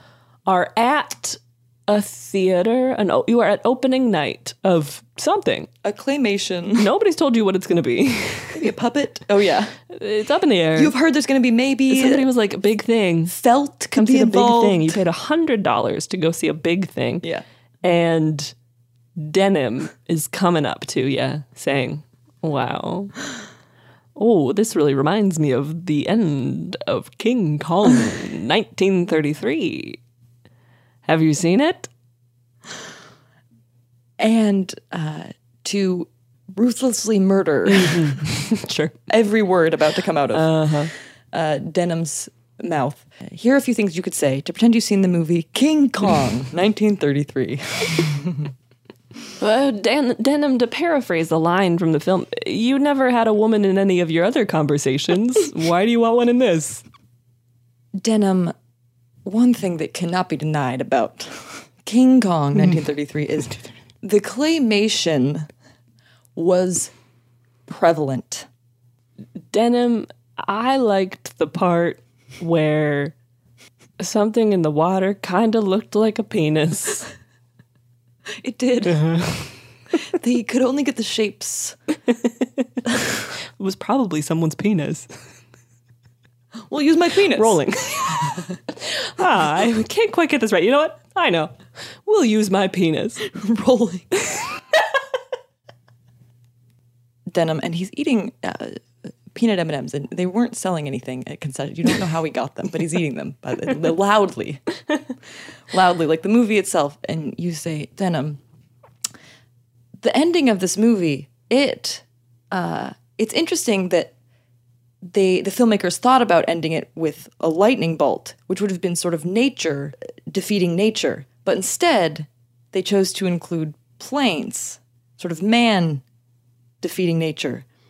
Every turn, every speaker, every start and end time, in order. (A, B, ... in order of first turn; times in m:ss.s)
0:00.5-0:05.7 A
0:05.8-0:06.9 B
0:06.8-0:08.7 A
0:08.6-0:09.7 B
0:09.9-0:10.9 A
0:10.8-0:12.3 B
0:11.9-0:13.4 A
0:13.3-0:15.0 B
0:13.9-0:17.2 A
0:17.8-0:18.5 A
0:19.2-0:23.1 A
0:24.2-0:30.0 A
0:31.1-0:31.9 A
0:34.2-0:38.1 B
0:37.7-0:39.0 A
0:39.1-0:48.5 B
0:40.3-0:40.9 A
0:49.4-0:56.8 A
0:58.0-0:58.5 B
0:59.2-1:05.5 B
1:06.4-1:06.9 B
1:07.7-1:08.5 B
1:09.5-1:13.1 A
1:14.0-1:17.1 A
1:18.4-1:19.1 B
1:18.9-1:19.4 A
1:20.1-1:21.8 B
1:23.6-1:25.1 A
1:26.7-1:27.6 B
1:27.4-1:28.3 A
1:28.8-1:31.5 A
1:32.1-1:33.2 A
1:33.3-1:34.1 B
1:37.3-1:44.6 B
1:45.7-1:48.4 B
1:50.0-1:54.1 B
1:55.0-2:06.0 B
2:06.8-2:07.6 B